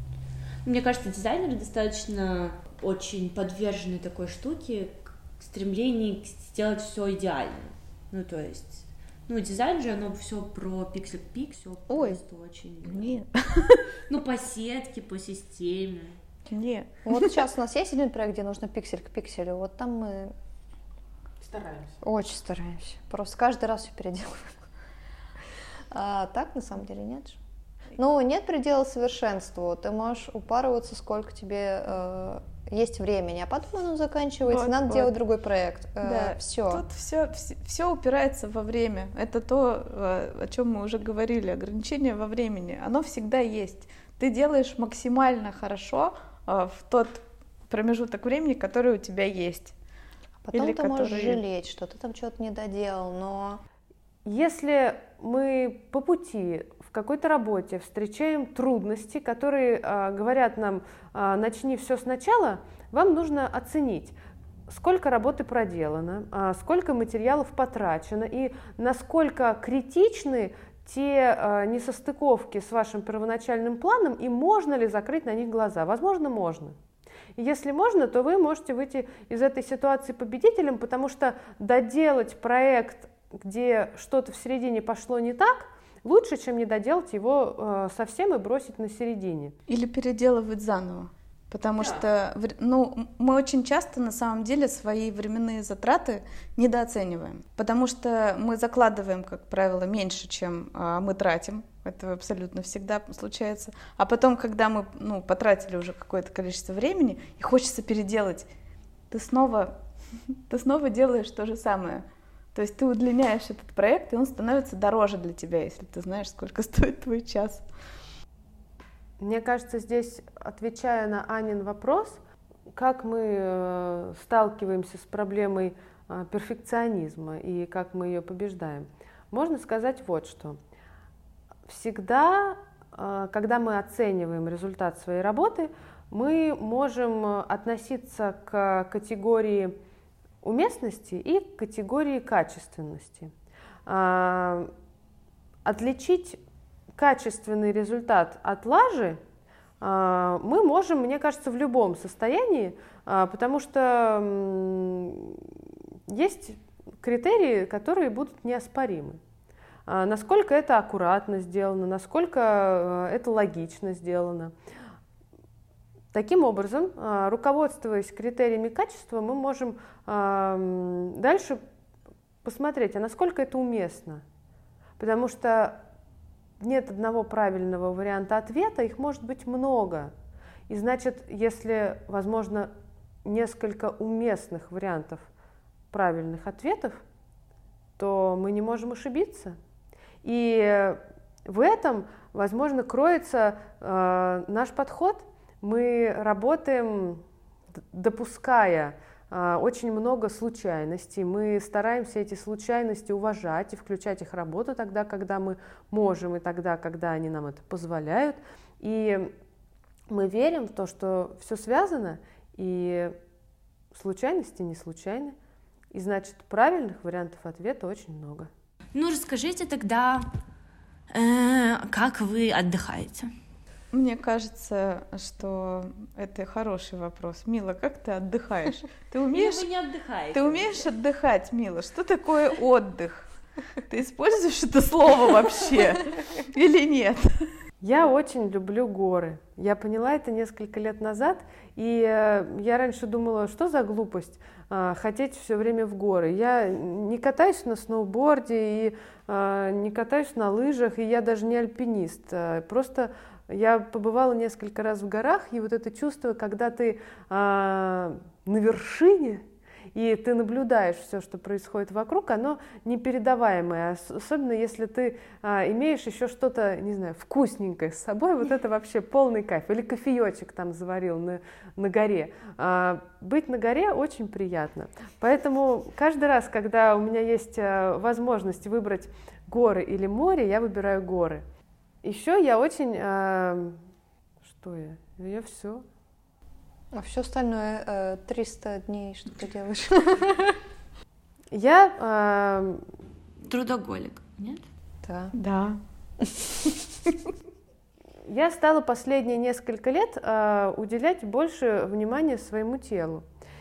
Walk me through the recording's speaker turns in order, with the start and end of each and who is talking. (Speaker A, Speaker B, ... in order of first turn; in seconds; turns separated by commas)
Speaker A: 0.6-13.0, Speaker B: 11.9-12.2, Speaker B: 12.8-13.8, Speaker A: 14.1-16.2, Speaker B: 16.5-17.3, Speaker C: 17.0-20.3, Speaker D: 21.5-21.9, Speaker C: 22.0-24.5, Speaker C: 25.9-27.4, Speaker C: 27.9-36.8, Speaker B: 34.4-35.1, Speaker B: 36.0-49.7, Speaker C: 50.4-53.6, Speaker B: 50.5-51.4, Speaker D: 54.2-64.1, Speaker D: 64.7-76.8, Speaker D: 77.4-89.5, Speaker B: 89.7-108.5, Speaker B: 109.1-109.8, Speaker B: 110.3-117.6, Speaker D: 119.2-122.2, Speaker D: 122.7-130.6, Speaker D: 131.7-139.8, Speaker D: 140.4-143.3, Speaker D: 143.8-144.7, Speaker D: 145.6-146.4, Speaker D: 147.0-149.2, Speaker D: 149.8-155.5, Speaker D: 156.1-159.2, Speaker D: 159.9-164.5, Speaker D: 166.1-171.6, Speaker D: 172.4-174.2, Speaker D: 175.0-175.8, Speaker D: 176.6-180.1, Speaker D: 180.7-182.7, Speaker D: 183.2-185.3, Speaker D: 185.9-187.0, Speaker D: 188.0-189.6, Speaker D: 190.2-197.2, Speaker D: 197.9-209.3, Speaker D: 210.1-213.2, Speaker D: 213.9-215.3, Speaker D: 215.9-218.5, Speaker A: 218.9-220.3, Speaker A: 221.1-223.3, Speaker B: 223.9-229.7, Speaker A: 229.3-230.8, Speaker B: 230.3-233.3, Speaker B: 233.9-237.5, Speaker D: 237.8-281.4, Speaker D: 282.0-283.8, Speaker D: 284.4-285.8, Speaker C: 286.9-290.6, Speaker D: 291.5-292.8, Speaker A: 293.4-294.6, Speaker C: 295.0-295.3, Speaker B: 295.3-295.8, Speaker D: 298.3-303.2